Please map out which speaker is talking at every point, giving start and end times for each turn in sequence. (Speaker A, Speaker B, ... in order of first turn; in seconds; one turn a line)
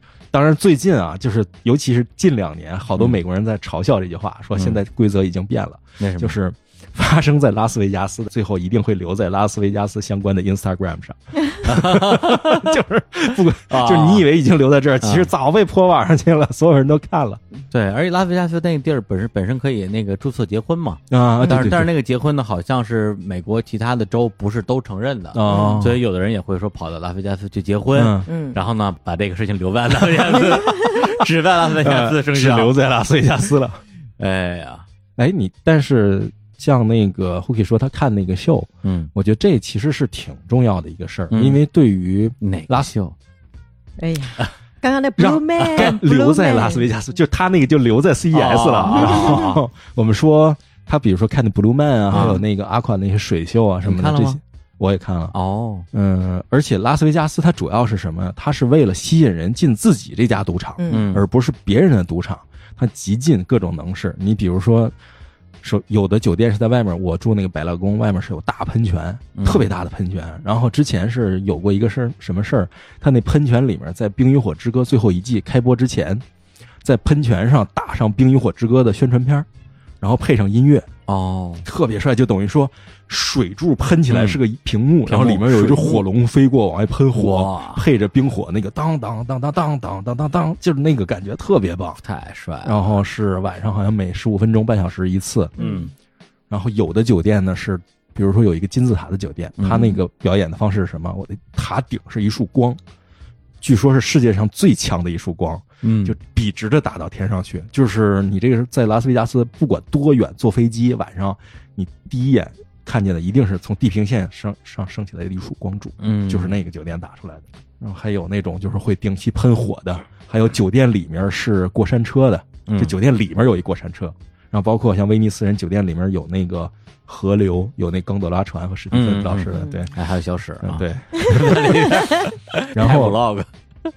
Speaker A: 0.3-17.4
Speaker B: 4.5-4.8
Speaker B: 6.0-6.3
Speaker B: 11.6-12.8
Speaker B: 13.7-14.3
Speaker B: 15.0-15.3
Speaker B: 17.7-32.7
Speaker A: 21.1-21.9
Speaker A: 25.3-26.0
Speaker C: 25.5-25.9
Speaker A: 27.9-28.3
Speaker C: 28.3-28.6
Speaker A: 31.8-33.8
Speaker B: 34.2-34.9
Speaker A: 35.2-42.9
Speaker B: 38.8-39.1
Speaker B: 41.3-41.6
Speaker B: 42.4-43.1
Speaker C: 44.0-46.9
Speaker A: 45.2-55.3
Speaker B: 45.6-45.9
Speaker B: 48.3-49.6
Speaker C: 48.9-49.5
Speaker B: 52.1-52.4
Speaker C: 52.1-52.4
Speaker B: 53.8-54.4
Speaker B: 55.3-55.9
Speaker A: 55.9-64.9
Speaker C: 60.8-61.1
Speaker B: 60.9-61.2
Speaker A: 65.6-76.2
Speaker B: 69.3-69.7
Speaker A: 76.8-79.5
Speaker A: 80.0-80.9
Speaker B: 81.1-81.7
Speaker A: 81.6-92.0
Speaker B: 84.1-84.4
Speaker B: 85.1-86.0
Speaker B: 87.1-87.8
Speaker B: 92.0-92.8
Speaker A: 92.6-95.5
Speaker B: 95.6-95.9
Speaker C: 95.6-95.9
Speaker A: 96.5-102.8
Speaker B: 99.6-100.0
Speaker A: 103.6-129.9
Speaker B: 105.8-106.2
Speaker B: 116.0-116.5
Speaker B: 122.7-122.9
Speaker B: 128.9-133.5
Speaker C: 129.5-129.8
Speaker A: 130.6-131.8
Speaker A: 132.7-133.2